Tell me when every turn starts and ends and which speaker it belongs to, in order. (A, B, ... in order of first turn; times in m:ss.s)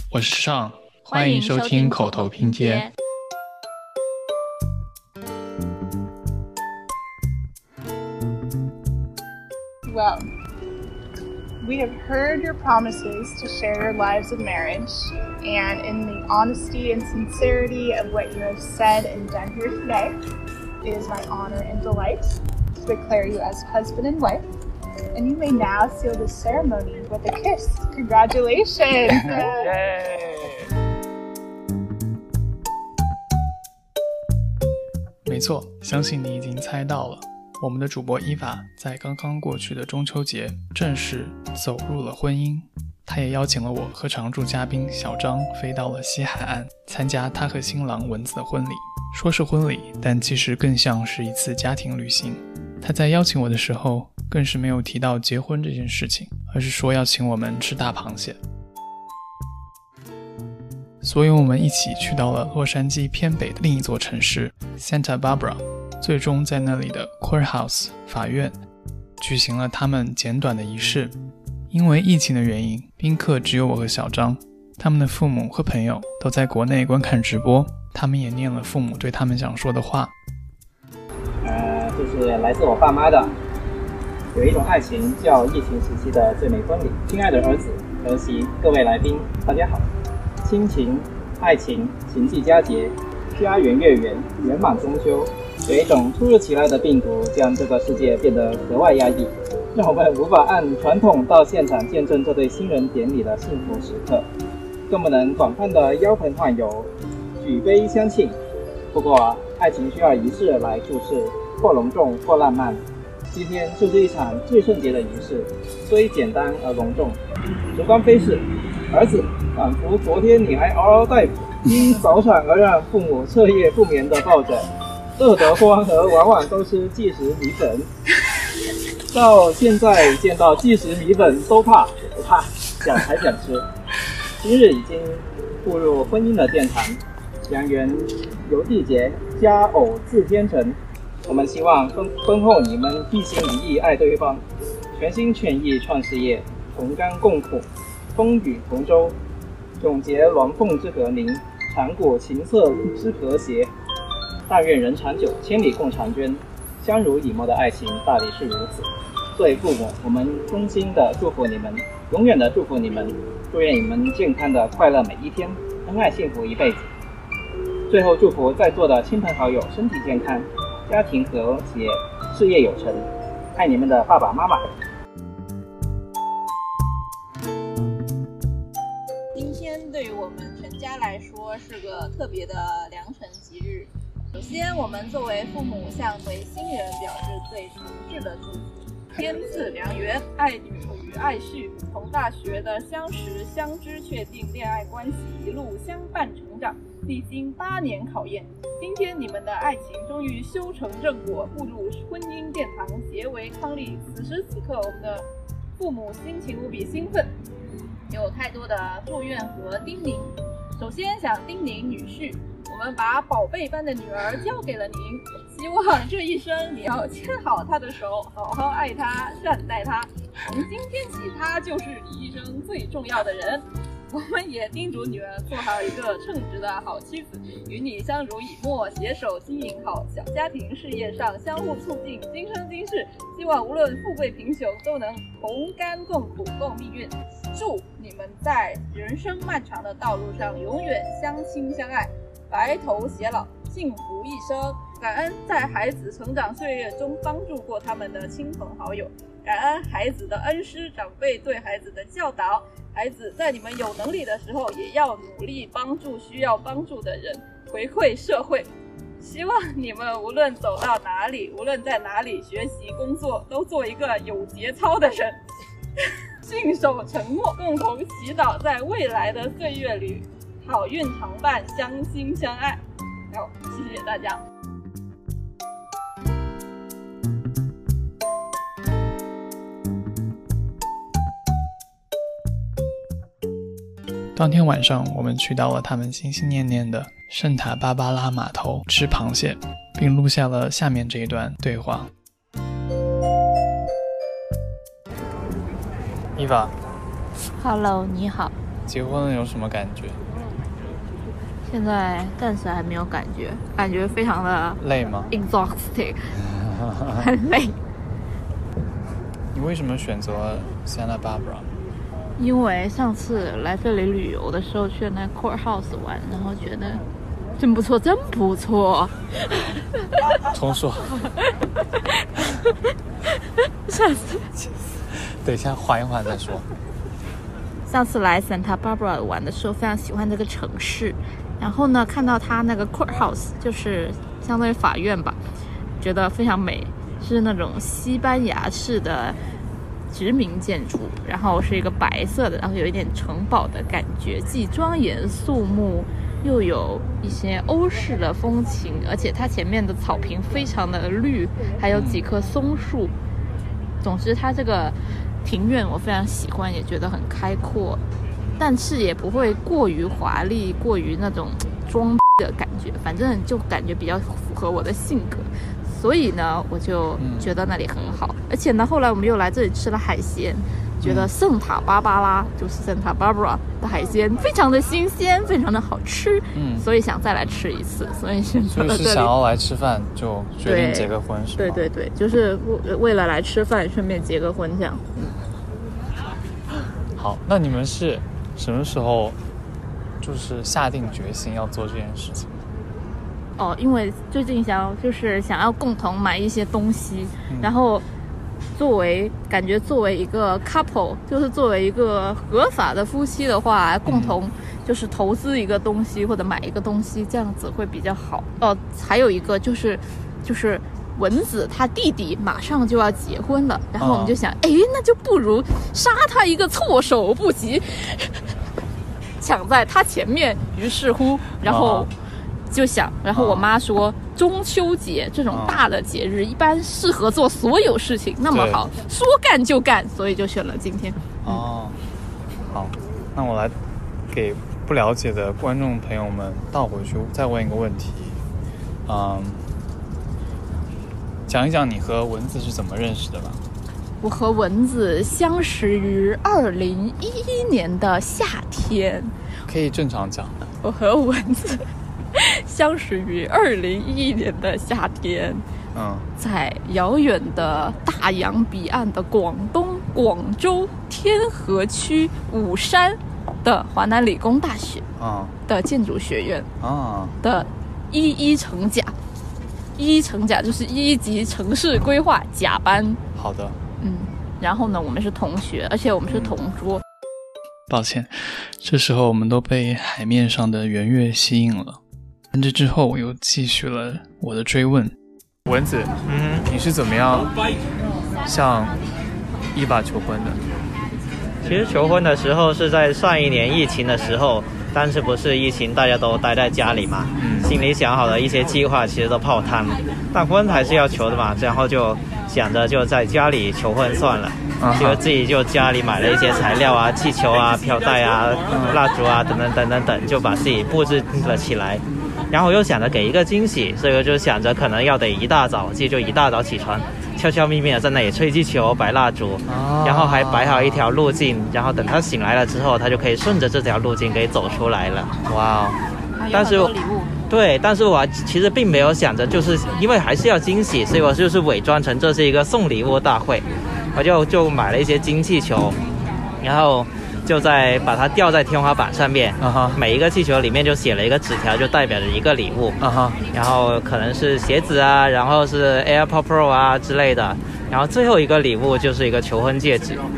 0:00.1-0:02.9 A
0:01.0-0:02.9 B
0:09.9-0:10.2 C
0:11.6-0:20.2 C
0:20.8-0:24.4 C
0:25.1-0:30.0 C
0:35.2-0:58.4 A
1:01.0-1:08.6 A
1:09.2-1:11.1 A
1:11.7-1:20.1 A
1:21.4-1:23.3 D
1:24.3-1:29.9 D
1:30.4-1:44.2 D
1:44.9-1:48.4 D
1:48.9-1:52.8 D
1:53.3-1:57.2 D
1:57.7-2:04.7 D
2:05.2-2:07.9 D
2:09.1-2:13.6 D
2:14.4-2:24.4 D
2:24.9-2:29.2 D
2:29.8-2:33.7 D
2:34.5-2:46.9 D
2:47.9-2:54.6 D
2:59.3-3:25.2 E
3:25.8-3:27.3 E
3:28.1-4:18.7 E
4:19.2-4:25.4 E
4:26.4-4:32.8 E
4:33.3-4:34.4 E
4:44.3-4:52.1 A
4:56.4-4:56.7 F
4:57.6-4:58.5 B
4:58.9-5:00.2 F
5:01.7-5:04.8 B
5:04.8-5:05.3 F
5:05.3-5:06.2 B
5:06.5-5:07.2 F
5:07.2-5:07.7 B
5:09.5-5:11.7 F
5:12.4-5:17.0 B
5:17.6-5:19.1 B
5:20.5-5:21.1 F
5:22.4-5:22.7 B
5:23.9-5:24.4 B
5:24.6-5:26.6 F
5:27.9-5:35.4 B
5:36.0-5:39.4 B
5:40.1-5:53.1 B
5:51.9-5:52.2 F
5:54.0-5:58.0 B
5:58.6-6:19.3 B
6:07.2-6:07.5 F
6:11.0-6:11.3 F
6:16.5-6:16.8 F
6:18.7-6:21.9 F
6:20.6-6:25.3 B
6:27.2-6:29.4 F
6:30.2-6:32.5 F
6:33.6-6:38.0 B
6:38.8-6:58.4 B
6:44.0-6:44.4 F
6:54.0-6:54.3 F
6:59.4-7:02.1 B
7:01.6-7:02.1 F
7:02.7-7:11.2 B
7:03.3-7:03.7 F
7:05.5-7:05.8 F
7:08.5-7:08.8 F
7:11.4-7:12.0 F
7:12.7-7:13.7 F
7:14.3-7:18.4 F
7:19.1-7:19.6 F
7:21.5-7:23.6 F
7:24.2-7:29.3 B
7:29.7-7:30.5 F
7:30.8-7:31.8 B
7:32.3-7:35.6 B
7:35.9-7:36.3 F
7:36.4-7:45.0 B
7:45.2-7:45.5 F
7:45.7-7:46.7 B
7:46.8-7:47.3 F
7:47.4-7:49.1 B
7:50.0-7:53.2 B
7:53.4-7:53.8 F
7:54.0-7:57.0 B
7:57.9-8:02.0 A
8:02.5-8:05.1 A
8:05.7-8:06.1 F
8:06.2-8:06.6 G
8:06.6-8:07.5 F
8:08.4-8:09.0 F
8:09.7-8:10.6 F
8:11.6-8:45.3 G
8:17.4-8:17.8 F
8:24.8-8:25.2 F
8:28.7-8:29.0 F
8:39.7-8:41.1 F
8:45.5-8:46.0 F
8:46.4-8:47.3 B
8:46.5-8:46.9 G
8:47.5-8:56.0 G
8:56.6-9:03.0 G
8:59.6-9:00.0 F
9:03.0-9:03.4 F
9:03.5-9:10.2 G